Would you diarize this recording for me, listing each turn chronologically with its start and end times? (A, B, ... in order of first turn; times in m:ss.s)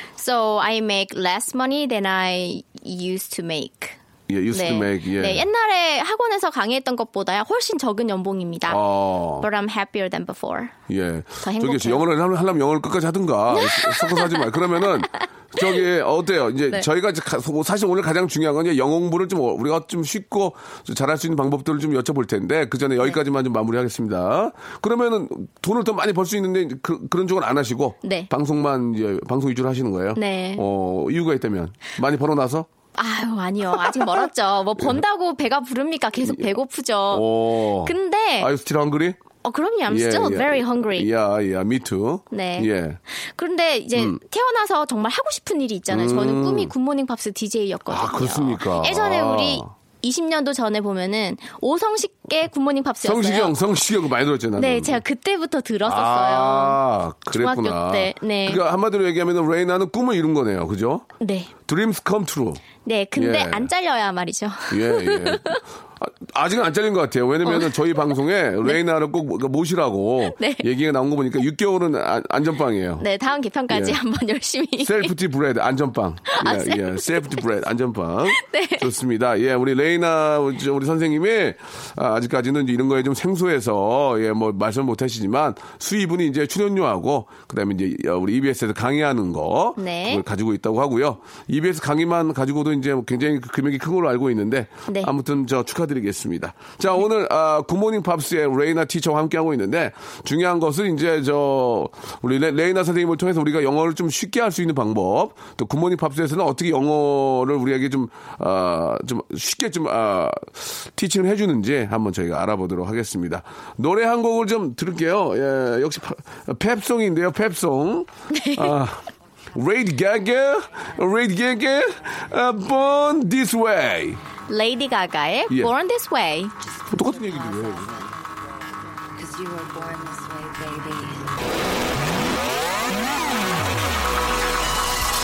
0:00.2-0:04.0 A
0:04.3-0:05.5 B
0:04.5-0:08.8 A
0:08.7-0:09.5 B
0:09.4-0:10.7 A
0:10.9-0:32.7 B
0:11.4-0:12.0 A
0:13.5-0:14.5 A
0:28.0-0:28.3 A
0:30.2-0:30.6 A
0:33.0-0:37.3 A
0:33.7-0:35.0 B
0:36.2-0:36.5 B
0:37.1-0:39.2 B
0:37.8-0:38.5 A
0:39.4-0:41.1 A
0:39.9-0:43.0 B
0:42.3-0:53.5 A
0:45.9-0:46.7 B
0:47.9-0:49.7 B
0:53.0-0:55.0 B
0:54.6-0:58.6 A
0:55.8-1:01.1 B
1:01.2-1:01.5 A
1:01.6-1:02.6 B
1:02.8-1:05.6 A
1:03.2-1:03.7 B
1:04.7-1:13.0 B
1:07.4-1:08.0 A
1:10.2-1:10.7 A
1:13.0-1:15.1 A
1:13.7-1:14.0 B
1:14.8-2:04.2 B
1:16.3-1:17.4 A
1:18.3-1:18.9 A
1:29.8-1:30.2 A
1:58.3-1:58.8 A
2:00.7-2:01.0 C
2:04.5-2:06.5 A
2:06.6-2:12.4 C
2:06.9-2:08.1 B